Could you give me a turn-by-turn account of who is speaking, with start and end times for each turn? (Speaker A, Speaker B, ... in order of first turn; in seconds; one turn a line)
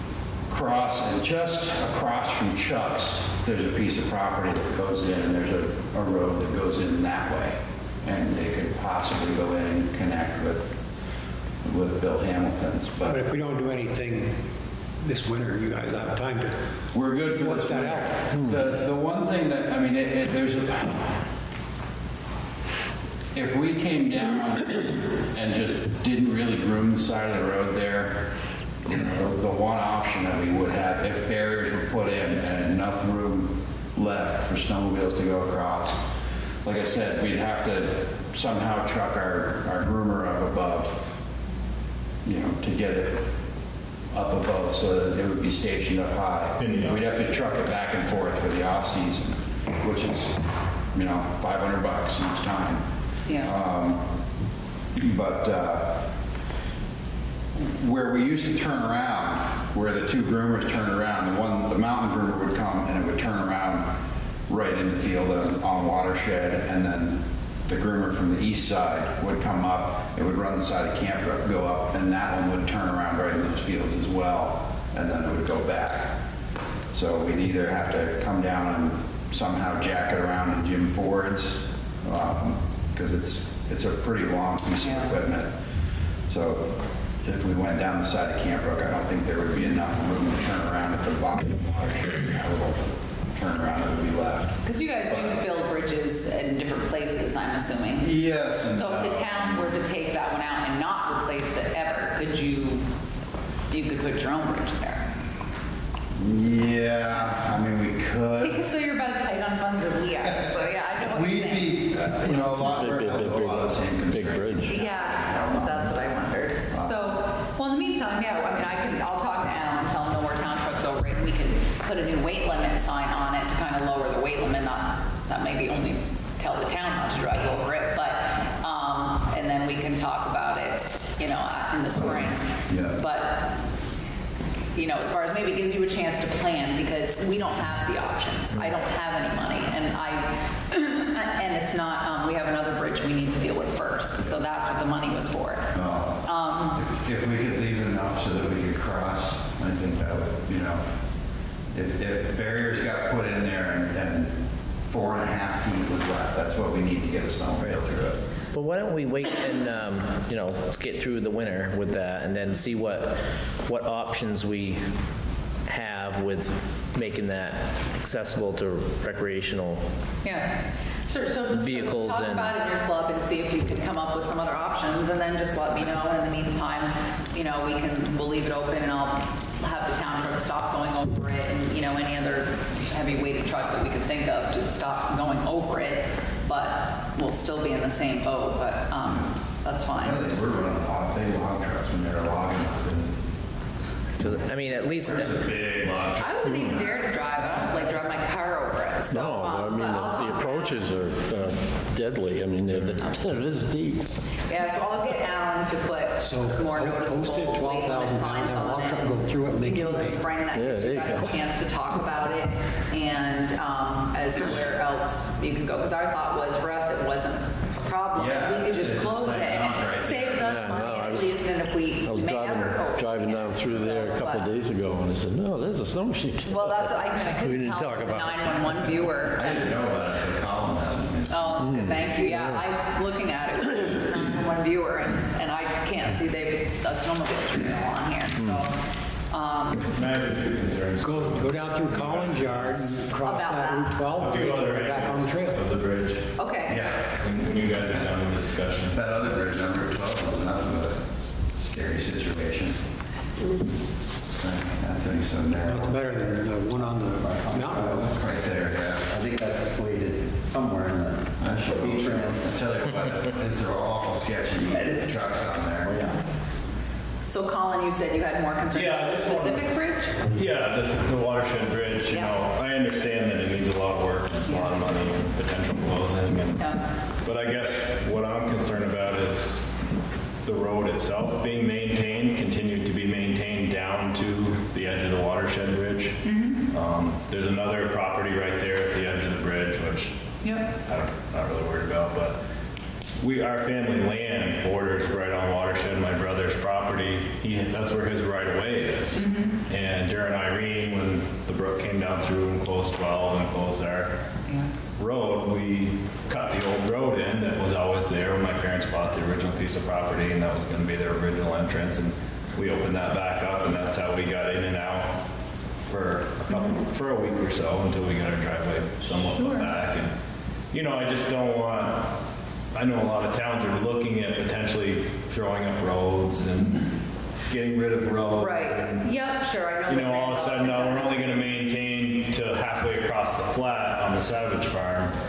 Speaker A: 0.5-10.8
Speaker A: 11.6-13.2
Speaker B: 13.0-14.5
Speaker B: 15.0-18.4
Speaker A: 16.9-21.3
Speaker C: 18.3-18.6
Speaker A: 23.3-36.0
Speaker A: 36.6-41.2
Speaker A: 42.2-43.4
Speaker A: 44.1-54.1
Speaker D: 46.6-47.2
Speaker E: 53.3-53.5
Speaker A: 55.0-56.1
Speaker A: 57.7-64.0
Speaker A: 64.5-76.2
Speaker A: 76.9-85.5
Speaker E: 84.8-85.1
Speaker A: 86.3-95.4
Speaker E: 94.6-98.1
Speaker A: 98.0-99.6
Speaker E: 98.7-102.8
Speaker D: 98.9-99.2
Speaker E: 103.7-105.1
Speaker A: 106.2-108.6
Speaker E: 108.4-111.9
Speaker A: 110.2-116.0
Speaker C: 112.3-114.8
Speaker E: 114.7-133.6
Speaker A: 116.7-117.0
Speaker A: 132.7-133.0
Speaker E: 134.8-145.7
Speaker A: 145.7-150.9
Speaker E: 146.2-146.8
Speaker A: 151.7-158.2
Speaker F: 158.5-164.9
Speaker F: 165.7-169.9
Speaker E: 170.2-190.2
Speaker F: 171.5-172.5
Speaker A: 189.0-189.3
Speaker A: 189.9-193.2
Speaker F: 194.2-195.5
Speaker A: 195.0-197.0
Speaker E: 196.2-200.8
Speaker C: 199.1-204.2
Speaker E: 204.5-224.5
Speaker B: 206.2-210.3
Speaker C: 210.5-211.4
Speaker A: 218.1-220.6
Speaker C: 220.4-221.4
Speaker C: 222.1-228.9
Speaker E: 226.4-229.6
Speaker A: 229.3-231.7
Speaker E: 231.3-238.8
Speaker C: 231.6-232.6
Speaker E: 239.3-239.9
Speaker D: 239.9-243.0
Speaker B: 241.0-245.6
Speaker E: 243.2-244.1
Speaker D: 244.2-246.3
Speaker E: 246.4-246.8
Speaker A: 246.7-248.1
Speaker D: 247.2-249.0
Speaker A: 248.9-252.8
Speaker A: 254.4-256.1
Speaker B: 255.6-258.1
Speaker G: 256.6-258.2
Speaker A: 257.8-259.1
Speaker G: 258.9-262.5
Speaker A: 261.4-266.0
Speaker G: 265.8-266.2
Speaker E: 267.3-270.2
Speaker D: 268.7-269.7
Speaker D: 270.2-276.6
Speaker E: 272.1-272.4
Speaker E: 274.5-274.7
Speaker D: 277.2-279.7
Speaker D: 280.4-290.2
Speaker E: 286.2-286.6
Speaker E: 290.4-290.7
Speaker D: 290.8-292.4
Speaker D: 293.2-304.2
Speaker E: 299.2-299.6
Speaker D: 305.0-315.2
Speaker D: 315.9-320.1
Speaker E: 316.5-316.8
Speaker E: 319.4-319.7
Speaker D: 320.7-322.2
Speaker D: 322.7-326.9
Speaker D: 327.5-329.1
Speaker E: 328.4-331.6
Speaker D: 329.9-335.1